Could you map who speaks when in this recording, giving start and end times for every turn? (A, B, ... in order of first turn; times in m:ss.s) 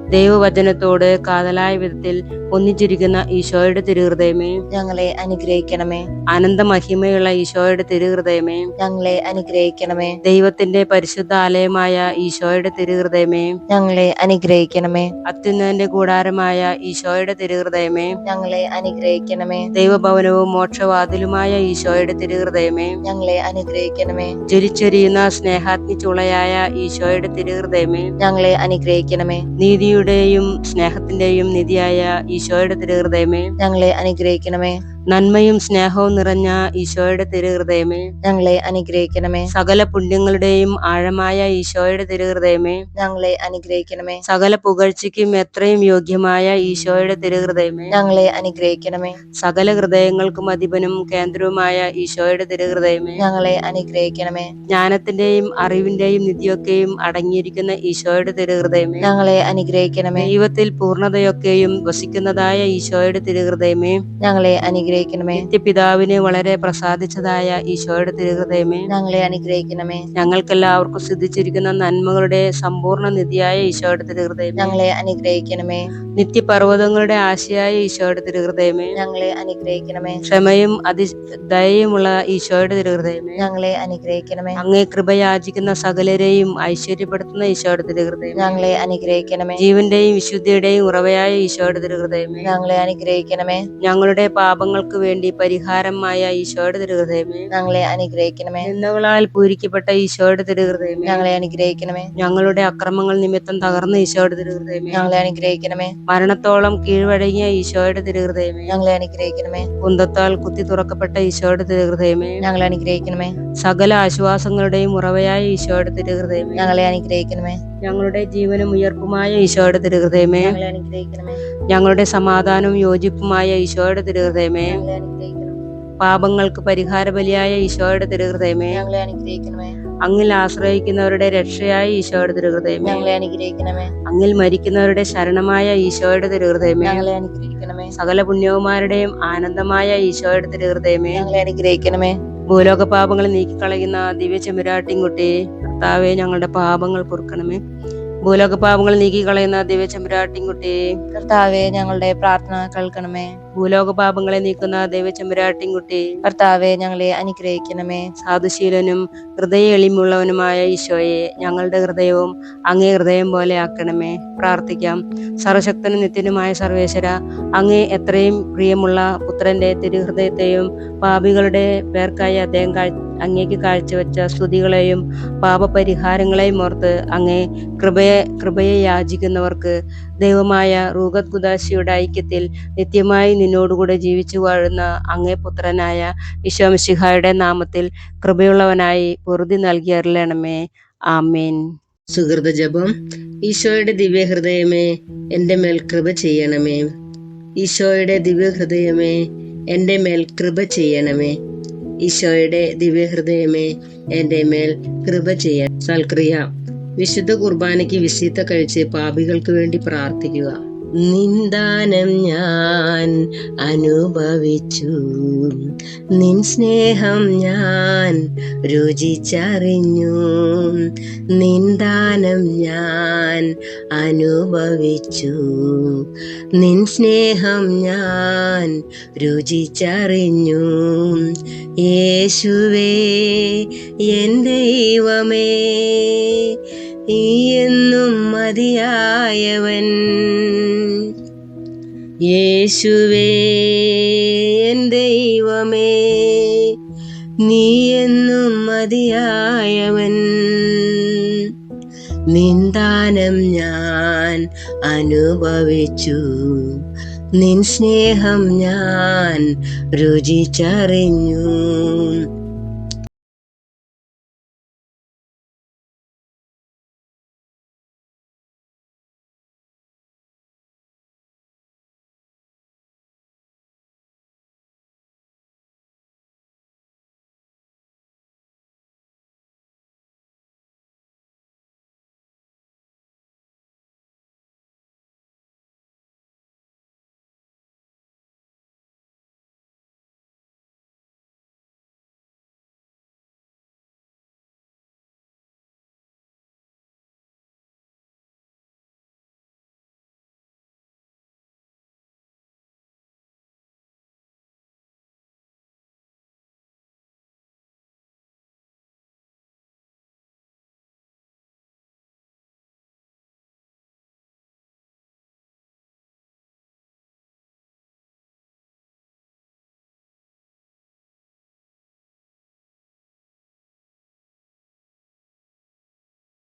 0:00.1-0:04.6 A
0:04.7-0:06.0 B
0:06.3-0:08.7 A
0:08.8-0:10.2 B
0:10.2-0:13.5 A
0:13.7-0:15.1 B
0:15.3-0:18.2 A
0:18.2-0:19.7 B
0:19.7-0:23.0 A
0:23.0-0:24.3 B
0:24.5-0:28.1 A
0:28.2-0:29.4 B
0:29.6-0:33.5 A
0:33.6-0:34.8 B
0:35.1-0:38.1 A
0:38.2-0:39.5 B
0:39.5-0:42.8 A
0:43.0-0:44.2 B
0:44.3-0:47.9 A
0:47.9-0:49.2 B
0:49.4-0:53.2 A
0:53.2-0:54.5 B
0:54.7-0:59.0 A
0:59.0-1:00.3 B
1:00.2-1:04.0 A
1:04.2-1:05.5 B
1:05.3-1:08.9 A
1:08.9-1:10.0 B
1:10.2-1:14.8 A
1:14.6-1:15.8 B
1:16.2-1:19.0 A
1:18.9-1:20.2 B
1:20.2-1:23.4 A
1:23.4-1:24.6 B
1:24.6-1:28.6 A
1:28.3-1:29.6 B
1:29.6-1:32.5 A
1:32.4-1:33.6 B
1:33.8-1:37.5 A
1:37.5-1:38.7 B
1:38.6-1:41.2 A
1:41.0-1:42.1 B
1:42.2-1:45.1 A
1:44.9-1:45.9 B
1:46.1-1:48.8 A
1:48.7-1:49.7 B
1:49.8-1:52.4 A
1:52.4-1:53.4 B
1:53.6-1:56.7 A
1:56.6-1:57.6 B
1:57.8-2:00.5 A
2:00.4-2:01.4 B
2:01.7-2:04.8 A
2:04.6-2:05.6 B
2:06.0-2:08.8 A
2:08.7-2:09.8 B
2:10.0-2:13.0 A
2:12.8-2:13.9 B
2:14.1-2:17.1 A
2:16.8-2:17.9 B
2:18.0-2:21.2 A
2:21.1-2:22.2 B
2:22.5-2:27.6 A
2:28.2-2:30.8 A
2:31.1-2:33.3 B
2:33.6-2:36.2 A
2:36.2-2:38.1 B
2:38.2-3:10.6 A
3:11.1-3:11.6 A
3:12.1-3:12.9 C
3:13.4-3:16.9 C
3:17.6-3:19.2 C
3:19.7-3:21.4 C
3:22.0-3:46.0 C
3:46.6-3:51.3 C
3:51.8-3:56.6 C
3:57.1-4:01.1 C
4:02.3-4:06.7 C
4:07.4-4:11.4 C
4:12.3-4:16.8 C
4:17.4-4:22.2 C